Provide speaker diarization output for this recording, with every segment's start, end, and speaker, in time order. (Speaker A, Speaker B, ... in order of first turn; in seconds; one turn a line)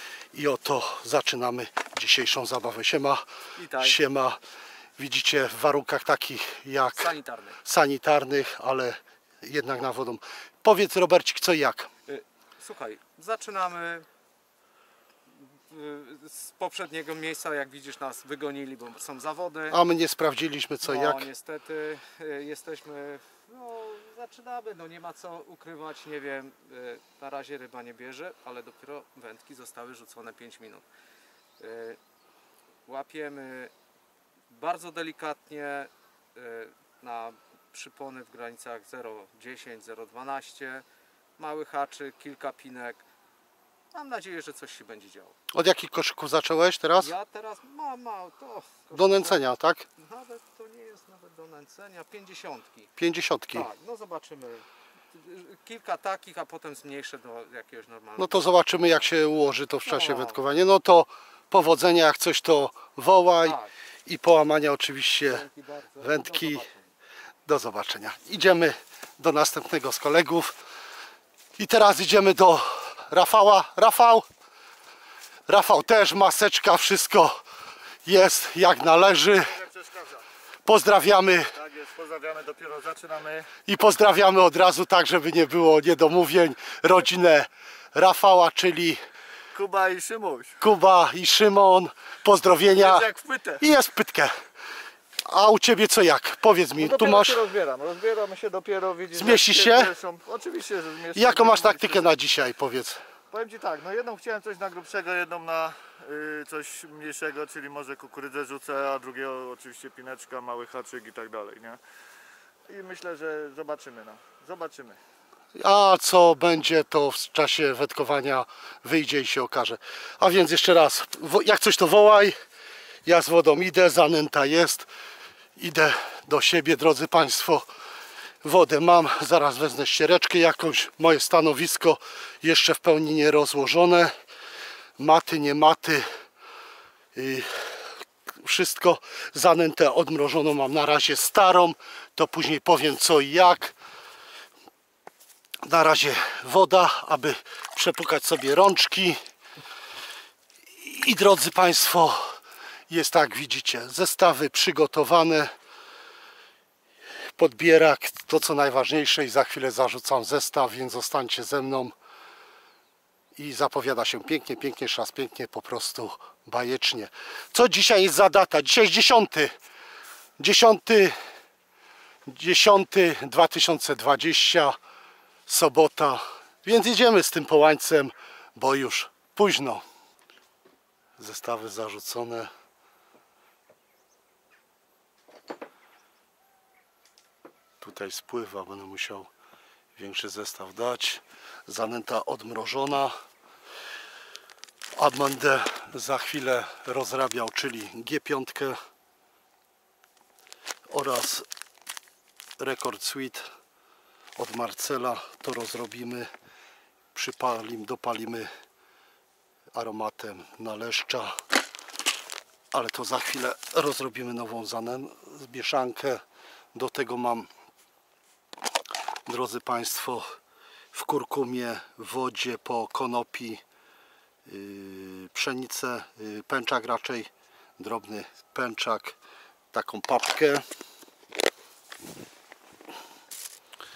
Speaker A: 0.3-4.4
Speaker B: 3.6-4.0
Speaker A: 5.0-11.9
Speaker B: 7.0-7.6
Speaker B: 12.1-14.1
Speaker B: 15.3-19.8
Speaker A: 19.7-21.3
Speaker B: 20.8-30.9
Speaker B: 31.6-32.0
Speaker B: 32.9-33.7
Speaker B: 34.5-40.9
Speaker B: 41.4-43.0
Speaker B: 43.9-45.4
Speaker A: 45.5-47.1
Speaker B: 47.0-49.4
Speaker A: 48.9-49.9
Speaker B: 50.0-52.9
Speaker A: 53.0-53.7
Speaker B: 53.5-59.2
Speaker A: 58.2-65.5
Speaker B: 59.9-60.4
Speaker B: 63.4-63.7
Speaker B: 65.2-66.9
Speaker A: 66.0-66.7
Speaker A: 67.5-70.6
Speaker A: 71.6-74.3
Speaker A: 75.5-77.4
Speaker A: 78.0-79.6
Speaker C: 79.3-80.2
Speaker A: 80.7-81.5
Speaker C: 81.5-83.5
Speaker A: 83.7-89.0
Speaker C: 89.5-90.6
Speaker A: 90.6-93.1
Speaker C: 92.7-93.6
Speaker A: 93.6-94.4
Speaker A: 95.2-97.4
Speaker C: 96.8-102.1
Speaker A: 99.1-99.9
Speaker A: 101.2-103.0
Speaker C: 103.3-111.8
Speaker C: 112.7-115.0
Speaker A: 115.5-122.4
Speaker A: 123.1-124.9
Speaker A: 125.6-127.7
Speaker A: 128.4-134.2
Speaker A: 135.0-136.1
Speaker A: 137.2-143.8
Speaker A: 145.6-149.2
Speaker A: 150.8-155.5
Speaker A: 157.2-161.9
Speaker A: 163.3-169.5
Speaker A: 170.4-171.2
Speaker A: 172.3-174.8
Speaker A: 175.5-179.8
Speaker A: 181.2-182.5
Speaker A: 187.8-189.3
Speaker A: 190.0-193.2
Speaker A: 195.0-198.8
Speaker A: 200.9-201.5
Speaker A: 202.6-203.5
Speaker A: 204.4-206.3
Speaker A: 207.1-208.5
Speaker A: 209.7-211.4
Speaker A: 212.7-216.2
Speaker A: 216.7-217.5
Speaker A: 219.3-220.4
Speaker A: 220.9-223.6
Speaker A: 224.5-229.2
Speaker A: 229.7-230.7